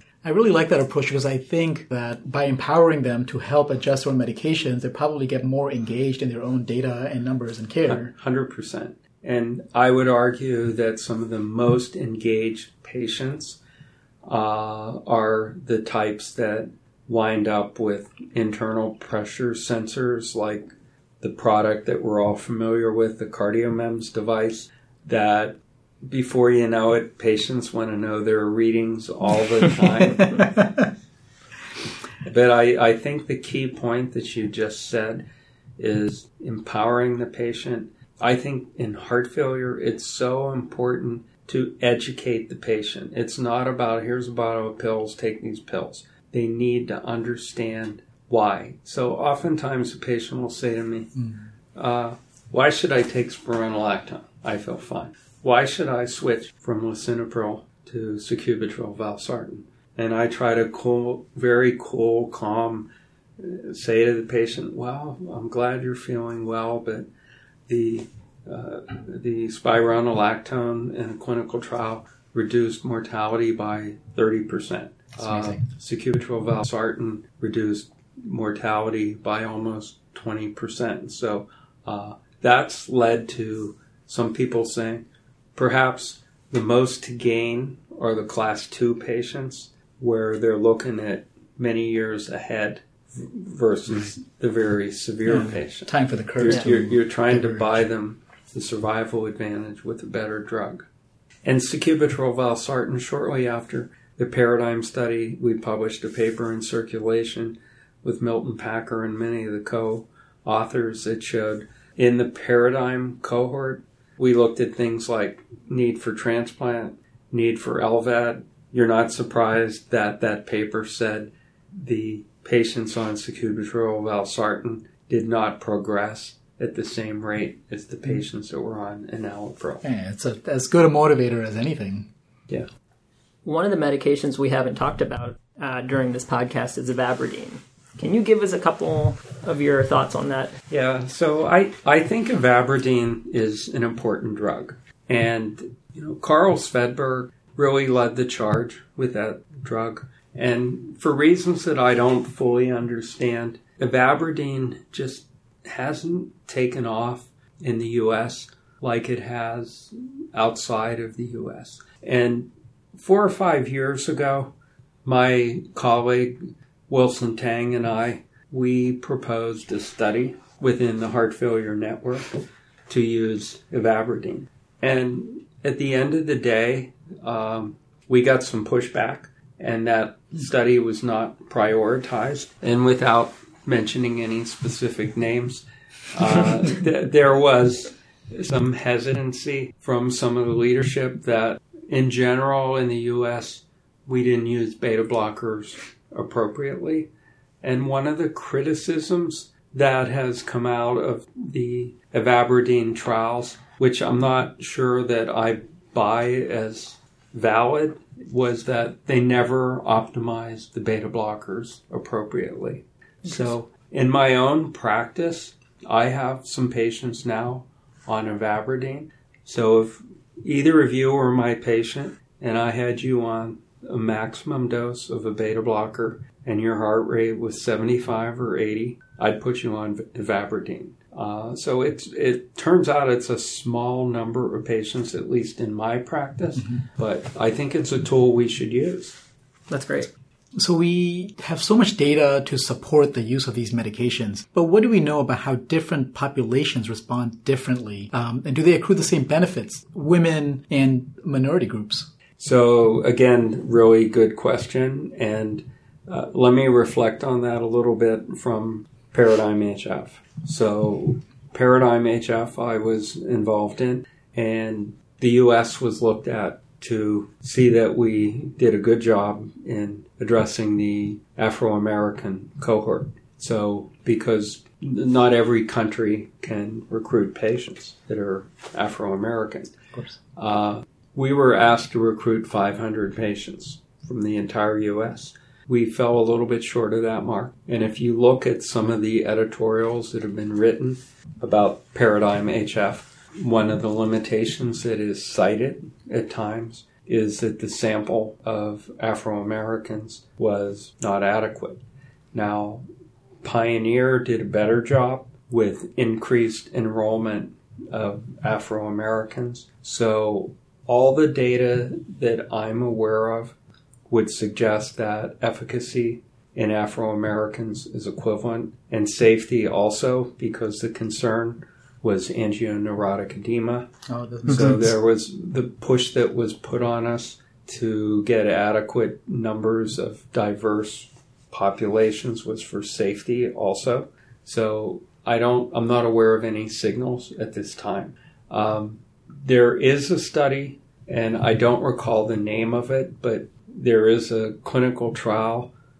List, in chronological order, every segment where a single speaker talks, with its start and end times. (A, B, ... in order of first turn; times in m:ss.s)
0:00.2-0:08.1 A
0:07.9-0:13.6 B
0:14.2-0:20.7 B
0:21.2-0:30.6 B
0:30.2-0:30.9 A
0:32.2-0:35.2 B
0:35.8-0:51.1 B
0:51.7-1:07.1 B
1:07.7-1:25.0 B
1:15.2-1:15.6 A
1:25.6-1:40.9 B
1:35.2-1:37.8 A
1:41.4-2:09.8 B
2:09.8-2:12.1 A
2:13.4-2:20.6 C
2:20.7-2:44.5 B
2:45.0-3:17.1 B
3:17.6-3:59.2 B
3:56.6-3:56.8 A
3:59.7-4:00.1 C
4:00.6-4:12.1 A
4:12.4-4:39.7 B
4:40.4-5:01.8 B
5:02.3-5:02.8 B
5:03.4-5:13.5 B
5:14.1-5:23.9 B
5:24.1-5:24.9 A
5:24.4-5:45.7 B